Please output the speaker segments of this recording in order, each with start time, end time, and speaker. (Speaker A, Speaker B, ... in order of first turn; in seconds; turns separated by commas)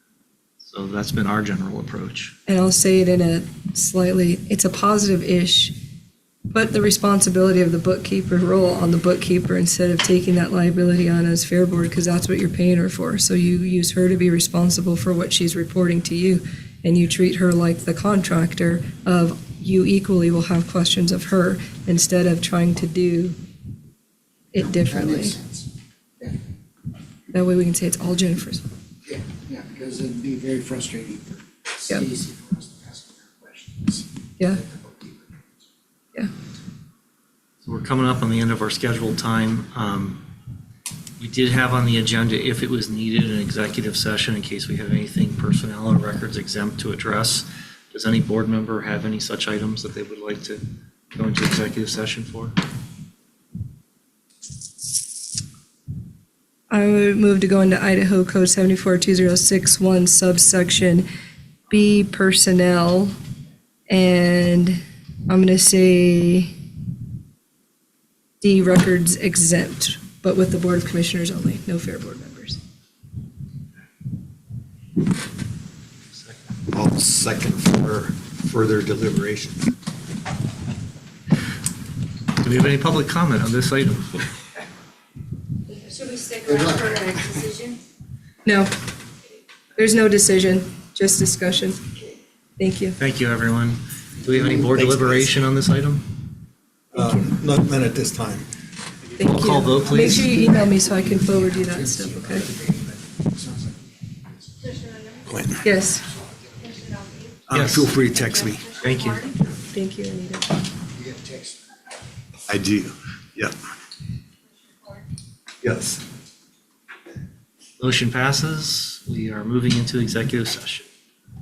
Speaker A: 0.6-2.3, Speaker B: 2.5-5.7, Speaker B: 6.5-23.4, Speaker B: 24.5-25.4, Speaker C: 24.9-25.7, Speaker B: 27.3-28.7, Speaker C: 29.0-35.5, Speaker A: 37.6-40.2, Speaker A: 41.2-52.5, Speaker B: 56.7-61.0, Speaker B: 61.7-63.1, Speaker B: 63.9-66.5, Speaker B: 68.4-72.6, Speaker A: 76.1-76.4, Speaker D: 76.7-79.7, Speaker A: 82.4-84.3, Speaker E: 85.9-87.8, Speaker C: 86.4-87.2, Speaker B: 88.4-88.7, Speaker B: 89.8-91.8, Speaker B: 92.6-93.0, Speaker A: 93.0-96.1, Speaker D: 94.5-95.3, Speaker D: 96.9-98.5, Speaker B: 99.2-102.5, Speaker A: 99.2-100.5, Speaker C: 100.8-104.8, Speaker D: 105.3-105.6, Speaker B: 105.6-106.0, Speaker C: 106.2-107.0, Speaker E: 107.0-107.3, Speaker D: 107.5-108.8, Speaker A: 107.5-107.9, Speaker A: 108.8-109.3, Speaker B: 109.7-110.5, Speaker C: 110.9-111.6, Speaker D: 112.5-113.5, Speaker D: 115.6-116.0, Speaker A: 117.8-120.9